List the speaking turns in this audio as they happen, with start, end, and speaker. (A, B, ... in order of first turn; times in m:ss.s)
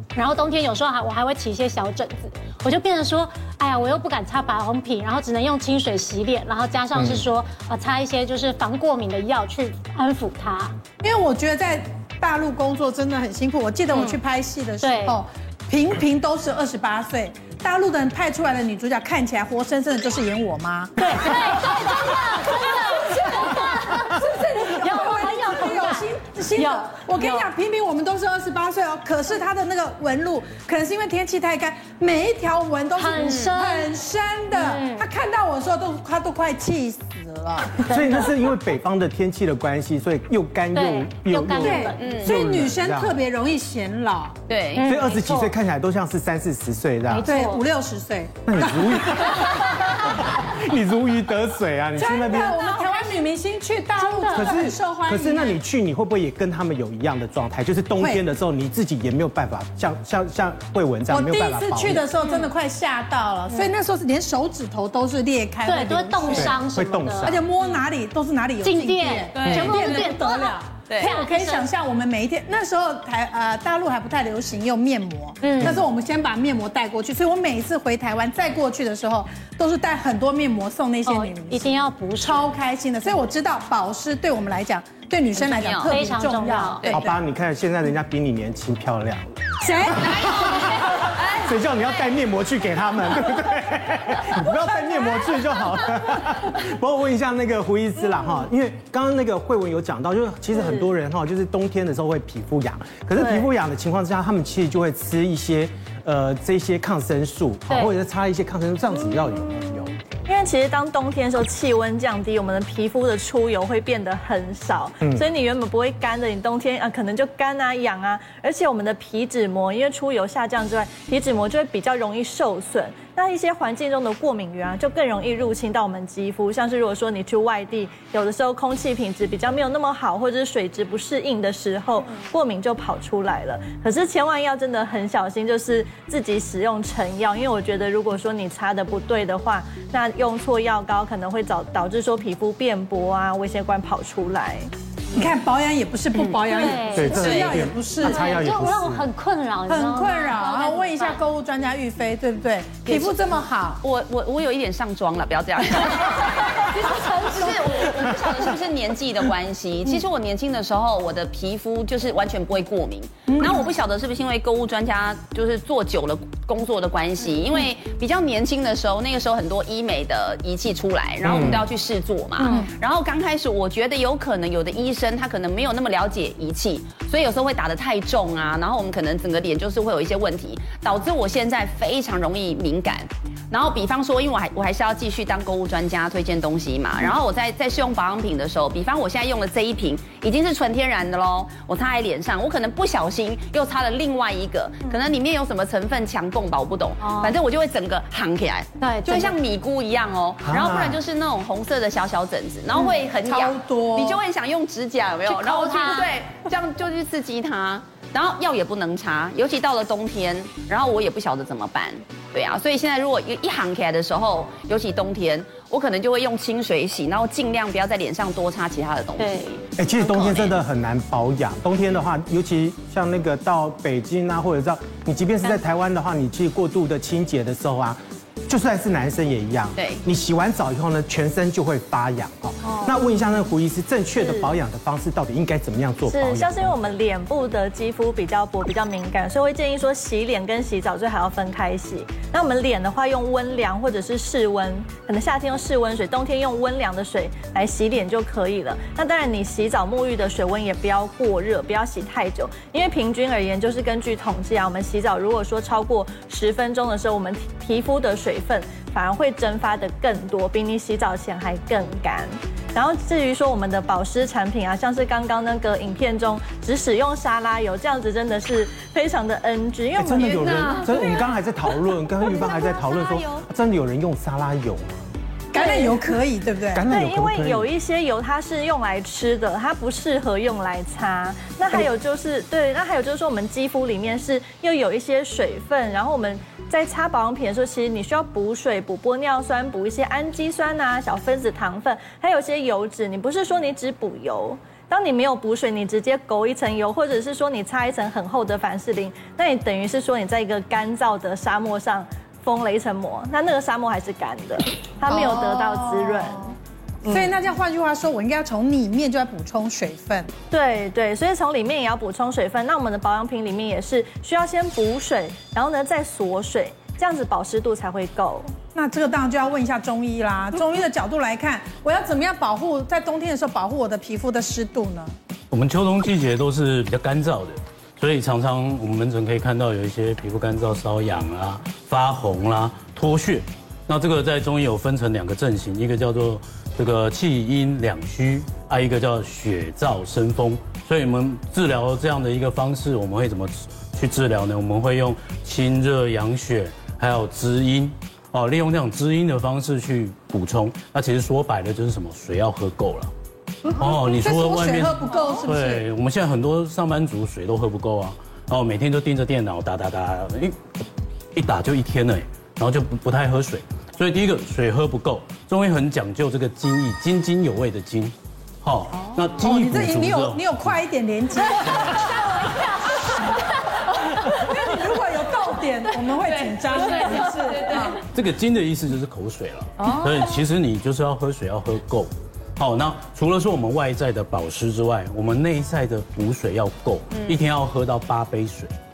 0:00.2-0:10.8 A
0:07.0-0:07.2 B
0:11.0-0:37.9 C
0:13.9-0:14.2 A
0:14.8-0:15.2 A
0:21.0-0:27.5 A
0:33.0-0:34.0 A
0:34.5-0:35.1 A
0:37.9-0:38.3 A
0:37.9-0:43.2 B
0:40.8-0:42.3 A
0:41.6-0:44.4 C
0:42.0-0:42.4 D
0:44.5-0:44.9 D
0:44.7-0:45.6 A
0:44.8-0:47.3 B
0:47.1-0:47.6 A
0:47.2-0:50.0 C
0:48.5-0:52.8 B
0:52.0-0:55.6 C
0:52.6-0:53.2 A
0:54.0-0:54.8 A
0:54.3-1:02.1 B
1:01.1-1:06.6 C
1:02.2-1:02.5 D
1:05.6-1:07.3 A
1:06.3-1:07.5 B
1:07.2-1:27.0 C
1:08.6-1:11.7 A
1:09.4-1:10.0 D
1:09.4-1:09.7 B
1:10.9-1:11.2 D
1:15.4-1:15.8 A
1:21.1-1:22.5 A
1:25.4-1:26.0 D
1:25.9-1:26.8 A
1:26.8-1:27.1 D
1:26.9-1:29.3 B
1:29.6-1:30.5 C
1:30.0-1:50.0 B
1:40.6-1:40.9 E
1:43.2-1:43.5 E
1:47.7-1:48.0 A
1:49.0-2:24.7 E
2:25.1-2:28.3 C
2:26.5-2:27.4 A
2:26.7-2:27.6 D
2:26.9-2:29.1 B
2:28.0-2:31.2 A
2:29.7-2:33.8 C
2:32.8-2:33.2 D
2:33.8-3:40.6 D
2:36.7-2:38.0 C
2:43.3-2:43.7 C
2:51.2-2:51.6 B
2:52.4-2:52.7 A
2:52.4-2:52.7 C
3:17.0-3:17.4 A
3:18.8-3:19.3 A
3:20.4-3:21.0 B
3:23.2-3:24.2 C
3:25.3-3:26.1 A
3:39.2-3:39.5 A
3:39.8-3:57.0 B
3:49.8-3:50.0 D
3:52.6-3:53.0 E
3:54.2-3:54.6 E
3:56.1-4:30.8 E
4:30.0-4:34.9 B
4:30.4-4:31.2 D
4:35.5-4:36.8 C
4:35.6-4:36.2 E
4:36.7-4:37.7 B
4:36.9-5:07.3 E
5:05.1-5:06.5 C
5:07.1-5:10.3 C
5:10.5-5:18.5 E
5:18.8-5:25.2 C
5:25.5-5:53.1 F
5:53.7-5:55.8 C
5:53.7-6:00.6 F
6:01.4-6:10.8 F
6:09.0-6:09.4 D
6:09.4-6:13.2 C
6:13.8-6:18.0 C
6:15.9-6:18.0 D
6:18.1-6:28.7 F
6:19.8-6:20.5 D
6:27.1-6:27.4 D